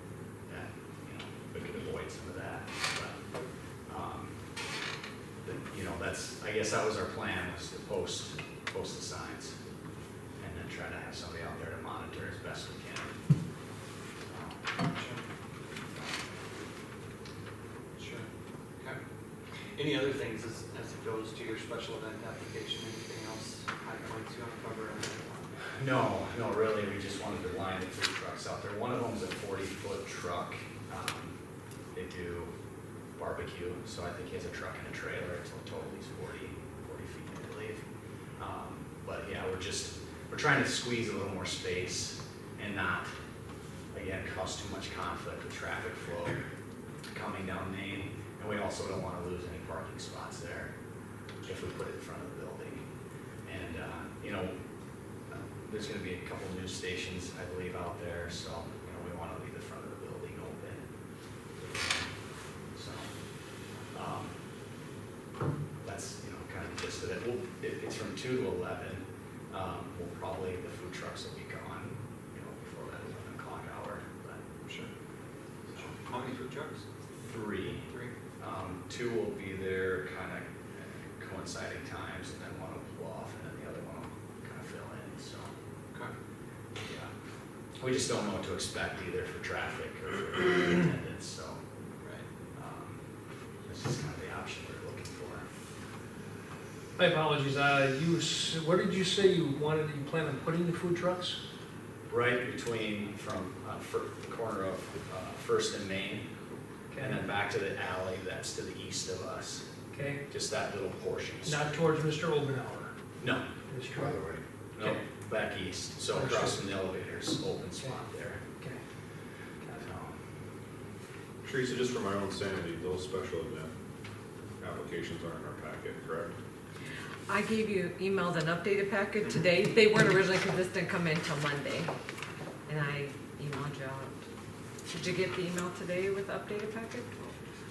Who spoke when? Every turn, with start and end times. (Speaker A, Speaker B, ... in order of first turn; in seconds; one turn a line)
Speaker A: 0.5-3.2
Speaker A: 3.9-4.4
Speaker A: 5.4-9.6
Speaker A: 10.4-13.2
Speaker A: 14.2-14.6
Speaker B: 14.9-15.2
Speaker B: 18.0-18.3
Speaker B: 19.8-25.5
Speaker A: 25.8-31.4
Speaker A: 31.9-32.5
Speaker A: 33.2-37.8
Speaker A: 38.4-43.1
Speaker A: 43.9-46.4
Speaker A: 47.1-50.7
Speaker A: 51.4-52.8
Speaker A: 53.5-54.6
Speaker A: 55.3-60.9
Speaker A: 61.6-62.1
Speaker A: 62.7-63.1
Speaker A: 63.9-64.3
Speaker A: 65.8-74.4
Speaker B: 74.7-74.9
Speaker B: 75.7-76.8
Speaker A: 77.2-85.5
Speaker B: 77.9-78.1
Speaker A: 86.8-87.1
Speaker A: 87.8-91.6
Speaker A: 92.5-93.0
Speaker A: 93.7-95.5
Speaker C: 97.0-101.4
Speaker A: 102.1-106.3
Speaker C: 106.9-107.2
Speaker A: 107.0-109.7
Speaker C: 109.9-110.2
Speaker A: 110.3-111.7
Speaker C: 111.5-113.0
Speaker A: 113.2-118.4
Speaker C: 113.7-114.2
Speaker C: 116.1-116.7
Speaker C: 119.6-119.9
Speaker A: 119.8-120.2
Speaker D: 121.4-123.7
Speaker D: 124.6-126.4
Speaker E: 127.3-131.9
Speaker E: 132.7-134.2
Speaker E: 134.9-137.3